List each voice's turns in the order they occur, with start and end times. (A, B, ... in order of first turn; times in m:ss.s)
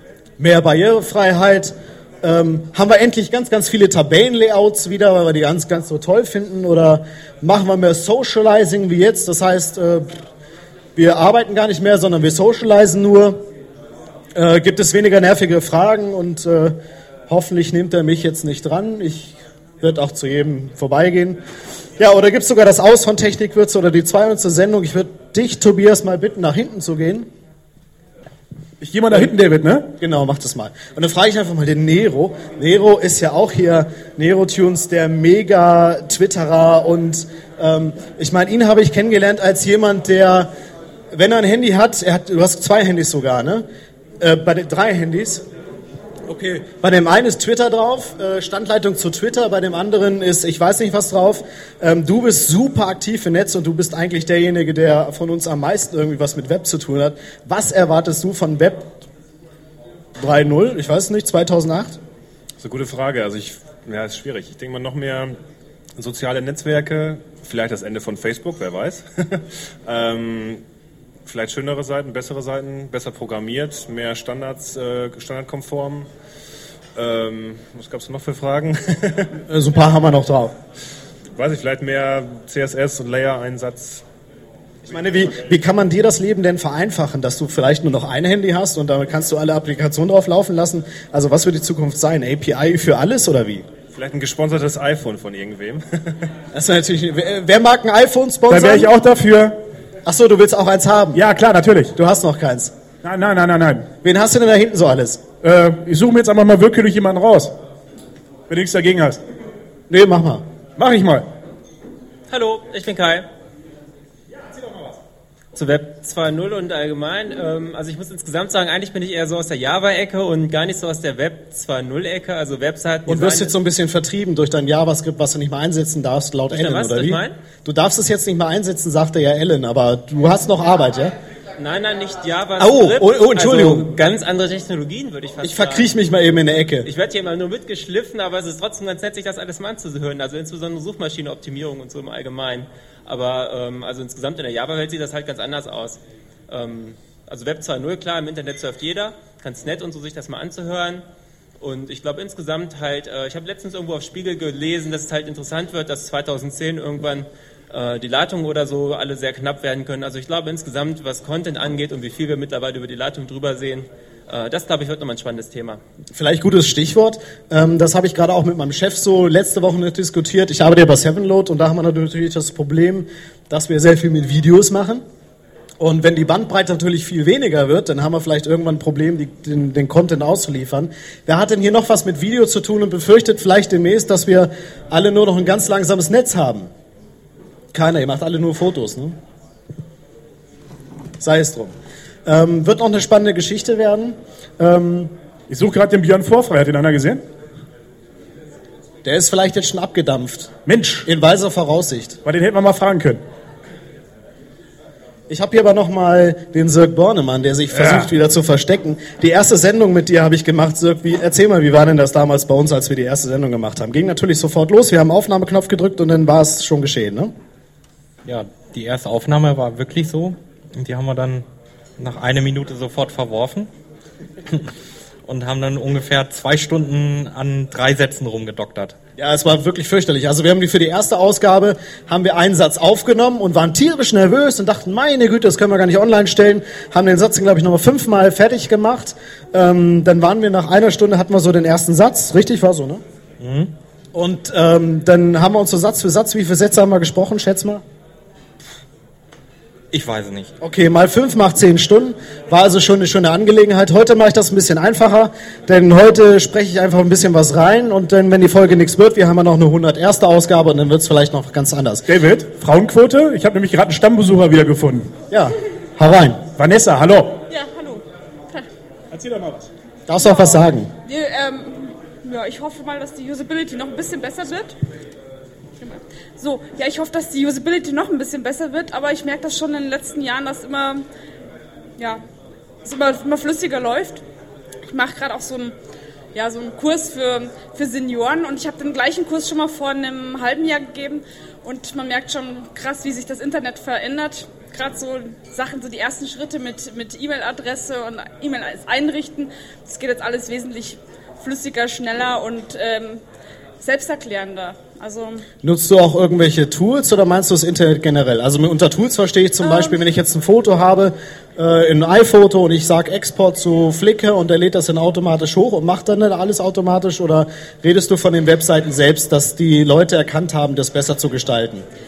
0:00.4-0:10.1 A
0:11.0-0:13.4 A
0:14.3-0:16.8 A
0:17.3-0:21.4 A
0:22.0-0:27.3 A
0:28.8-0:29.9 B
0:30.0-0:40.5 A
0:41.1-0:43.6 A
0:44.2-0:45.4 A
0:46.3-0:59.0 A
1:00.2-1:02.0 A
1:02.6-1:05.4 C
1:06.0-1:10.6 C
1:11.2-1:16.1 C
1:17.0-1:19.3 C
1:19.5-1:20.5 A
1:21.4-1:24.0 C
1:24.8-1:33.6 A
1:33.9-1:36.2 C
1:36.5-1:38.9 A
1:38.5-1:39.6 B
1:40.0-1:41.2 A
1:41.1-1:41.9 B
1:42.0-1:42.7 A
1:43.0-1:43.9 B
1:44.0-1:45.2 A
1:45.4-1:47.5 B
1:48.5-1:49.2 B
1:49.9-1:50.4 A
1:50.8-1:51.2 B
1:52.3-1:53.3 D
1:55.5-2:03.5 D
2:03.0-2:11.1 A
2:06.5-2:07.4 D
2:11.6-2:15.9 D
2:12.6-2:13.9 A
2:15.4-2:16.9 A
2:16.8-2:31.0 D
2:31.6-2:45.8 D
2:46.1-2:55.0 A
2:55.8-3:06.7 A
3:07.7-3:09.2 A
3:11.2-3:11.7 A
3:12.2-3:15.1 A
3:15.5-3:17.2 B
3:19.0-3:20.5 A
3:20.6-3:21.1 B
3:21.0-3:22.2 A
3:22.2-3:23.2 B
3:25.3-3:37.3 A
3:27.7-3:28.1 B
3:38.2-3:41.4 E
3:42.0-3:43.7 E
3:45.2-3:49.0 E
3:49.2-4:03.0 A
4:03.4-4:03.7 E
4:04.1-4:07.8 A
4:09.9-4:10.5 E
4:10.6-4:22.0 A
4:22.1-4:25.1 B
4:25.3-4:26.4 A
4:26.6-4:27.4 B
4:27.5-4:28.7 F
4:29.1-4:29.7 B
4:30.1-4:30.9 A
4:30.2-4:34.8 F
4:35.8-4:41.0 F
4:42.8-4:44.2 F
4:44.9-4:45.7 F
4:46.3-5:03.2 F
5:03.8-5:05.4 F
5:05.6-5:21.8 A
5:09.6-5:10.0 F